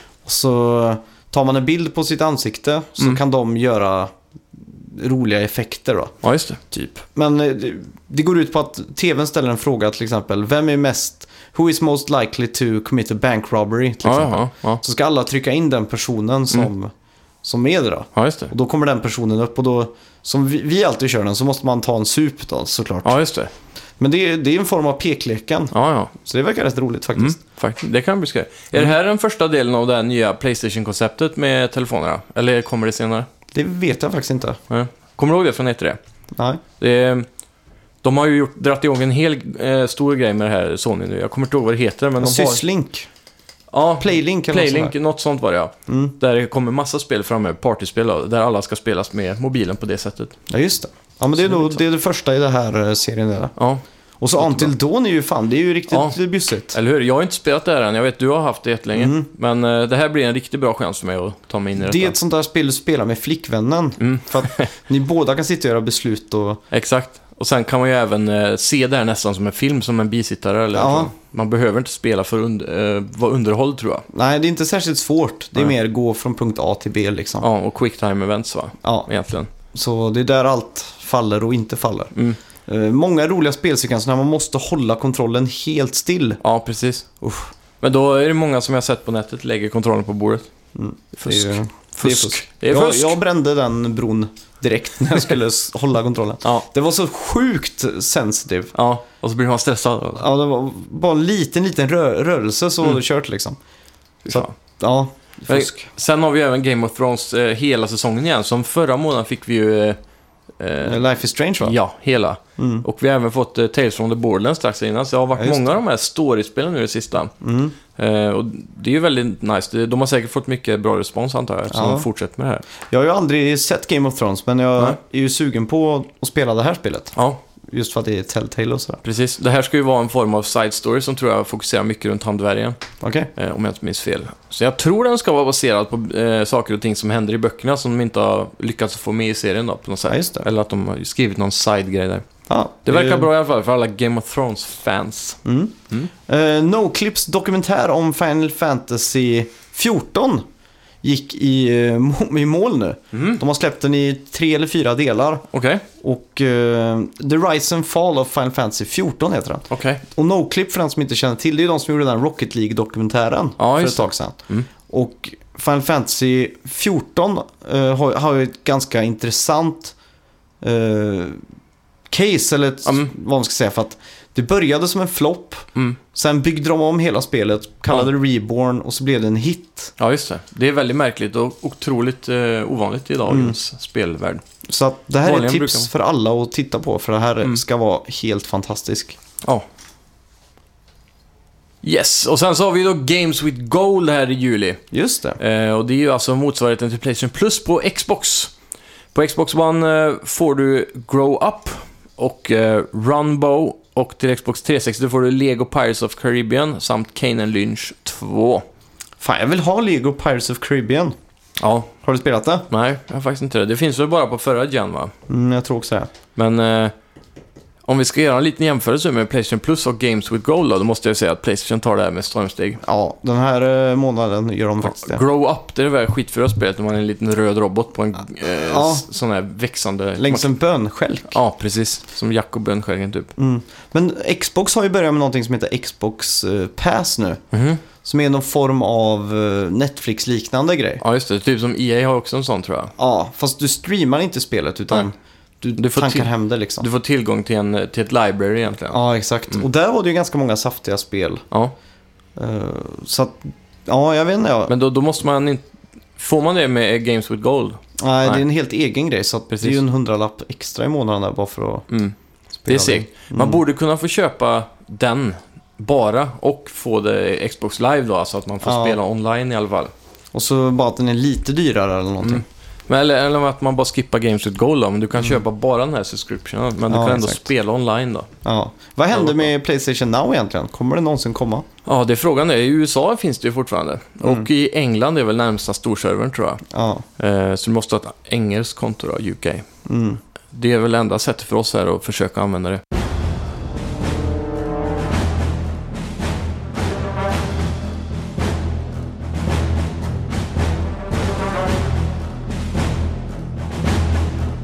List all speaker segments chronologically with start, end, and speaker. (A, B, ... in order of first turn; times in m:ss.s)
0:00.2-0:06.2 A
0:06.2-0:06.6 B
0:06.7-0:16.9 A
0:14.0-0:14.8 B
0:17.4-0:23.1 A
0:18.2-0:18.5 B
0:23.0-0:23.5 B
0:24.0-0:27.4 A
0:25.7-0:26.1 B
0:27.2-0:33.3 B
0:33.5-0:34.6 A
0:34.7-0:36.0 B
0:36.4-0:36.6 A
0:36.8-0:37.3 B
0:38.0-0:42.6 B
0:42.2-0:43.1 A
0:43.7-0:50.4 B
0:44.0-0:44.9 A
0:45.9-0:46.2 A
0:50.5-0:53.5 A
0:51.4-0:51.8 B
0:53.6-0:53.8 B
0:54.2-0:56.8 A
0:54.4-0:54.7 B
0:55.9-0:56.2 B
0:56.7-1:02.2 B
0:59.0-0:59.3 A
1:01.8-1:06.6 A
1:04.0-1:04.7 B
1:06.7-1:14.0 B
1:10.7-1:11.1 A
1:14.1-1:17.5 A
1:17.4-1:19.5 B
1:19.7-1:22.1 A
1:22.7-1:26.4 A
1:26.4-1:27.1 B
1:27.2-1:27.5 A
1:27.8-1:30.5 B
1:30.8-1:38.7 A
1:31.2-1:33.2 B
1:38.8-1:40.2 B
1:40.2-1:43.6 A
1:44.3-1:44.5 B
1:44.3-1:45.9 A
1:45.5-1:50.0 B
1:50.6-1:51.0 B
1:50.8-1:51.8 A
1:51.6-1:57.3 B
1:52.6-1:52.8 A
1:55.4-1:55.6 A
1:57.4-1:57.8 A
1:58.0-2:02.6 B
2:01.7-2:02.1 A
2:02.9-2:07.1 A
2:07.7-2:09.0 A
2:09.0-2:12.8 B
2:13.0-2:13.3 A
2:13.4-2:22.3 B
2:20.1-2:20.4 A
2:22.5-2:23.3 A
2:22.8-2:26.1 B
2:25.4-2:30.4 A
2:31.0-2:35.5 A
2:33.1-2:33.4 B
2:35.5-2:35.8 B
2:36.0-2:49.9 A
2:39.7-2:40.0 B
2:43.6-2:44.7 B
2:50.6-2:51.4 A
2:52.1-2:59.9 A
2:52.9-2:53.1 B
3:00.0-3:04.4 B
3:03.3-3:03.6 A
3:04.7-3:09.2 A
3:05.2-3:05.9 B
3:11.8-3:14.8 B
3:14.9-3:15.4 A
3:15.4-3:18.5 B
3:19.1-3:28.6 B
3:29.2-3:31.2 A
3:31.6-3:31.9 B
3:32.0-3:32.7 A
3:32.7-3:35.1 B
3:35.3-3:36.1 A
3:36.4-3:36.9 B
3:37.9-3:42.8 B
3:42.8-3:45.2 A
3:44.8-3:50.5 B
3:48.5-3:49.1 A
3:50.2-3:51.4 A
3:51.3-3:53.3 B
3:53.4-3:57.4 A
3:57.5-3:57.8 B
3:58.0-4:01.0 A
4:01.0-4:02.9 B
4:03.0-4:06.9 A
4:05.8-4:09.6 B
4:08.9-4:11.4 A
4:12.4-4:14.7 A
4:14.7-4:15.6 B
4:16.2-4:18.4 B
4:18.0-4:21.8 A
4:19.5-4:19.8 B
4:21.9-4:22.2 B
4:22.6-4:23.6 A
4:22.7-4:29.9 B
4:28.6-4:29.0 A
4:30.3-4:32.4 A
4:32.2-4:38.3 B
4:36.9-4:37.4 A
4:38.4-4:41.7 A
4:39.1-4:39.4 B
4:41.9-4:46.6 B
4:44.2-4:44.5 A
4:46.7-4:47.0 A
4:47.2-4:49.7 B
4:49.9-4:50.2 A
4:50.5-4:52.8 B